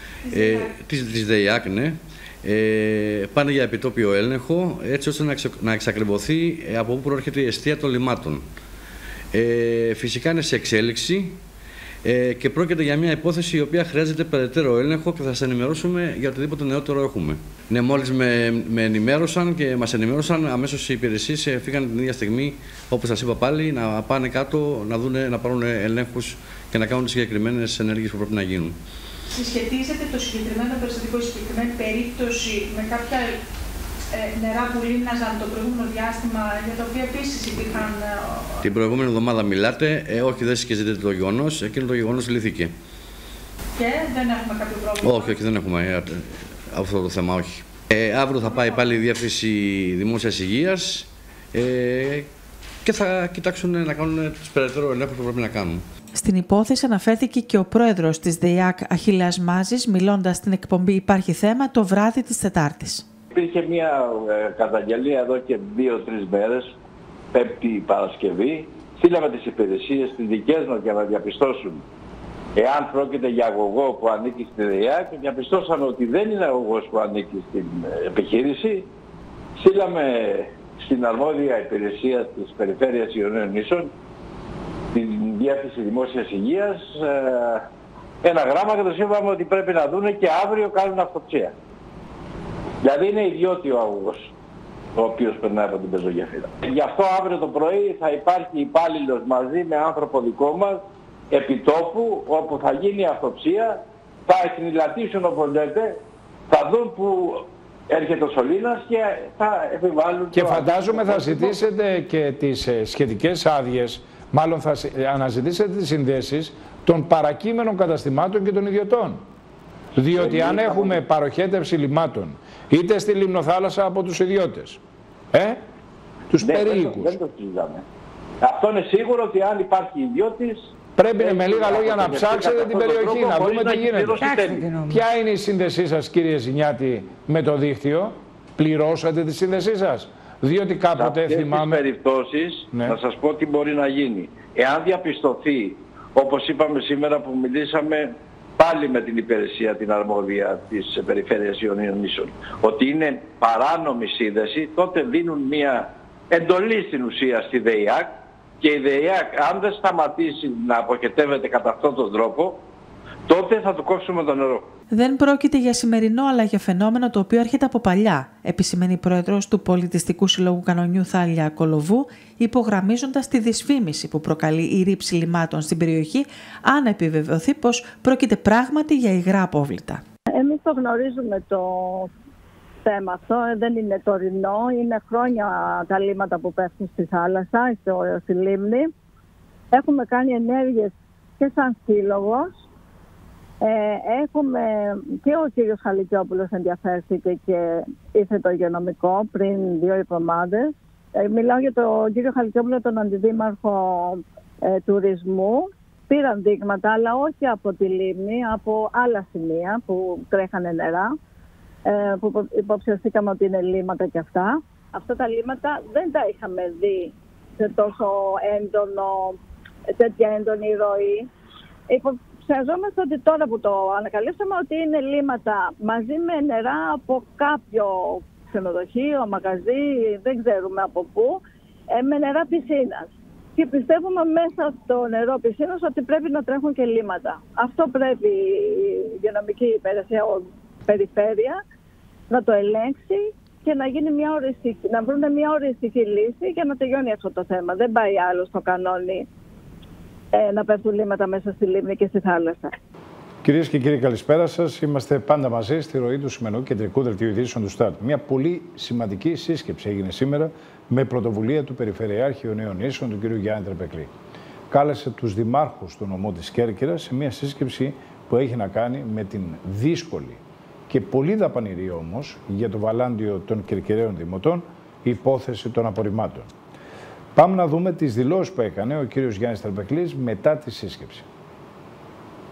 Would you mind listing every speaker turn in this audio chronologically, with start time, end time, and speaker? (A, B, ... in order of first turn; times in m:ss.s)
0:00.3-0:08.4 A
0:09.3-0:11.4 A
0:12.0-0:28.8 A
0:29.3-0:33.3 B
0:34.2-0:38.2 B
0:38.6-0:42.7 A
0:43.8-0:45.1 B
0:45.0-0:52.3 A
0:52.8-0:55.8 A
0:56.2-1:03.1 B
1:03.3-1:06.7 C
1:07.3-1:11.8 C
1:12.6-1:18.9 C
1:19.6-1:23.9 C
1:24.9-1:27.6 C
1:28.2-1:31.5 C
1:32.8-1:34.3 C
1:35.0-1:46.0 C
1:46.5-1:51.6 C
1:50.3-1:59.2 D
2:00.0-2:04.8 D
2:00.2-2:01.0 C
2:05.3-2:05.6 D
2:06.3-2:07.2 D
2:06.4-2:07.8 C
2:08.4-2:14.9 C
2:11.0-2:21.8 D
2:21.0-2:42.6 C
2:22.7-2:23.0 D
2:43.3-2:44.7 C
2:44.9-3:00.0 B
3:00.4-3:02.1 E
3:02.8-3:08.9 E
3:09.7-3:12.6 E
3:13.6-3:31.1 E
3:31.9-3:39.4 E
3:40.0-3:41.3 E
3:41.9-3:51.4 E
3:51.9-4:01.6 E
4:02.3-4:09.3 E
4:10.3-4:12.7 E
4:13.4-4:24.1 D
4:24.7-4:36.5 D
4:37.4-4:41.3 D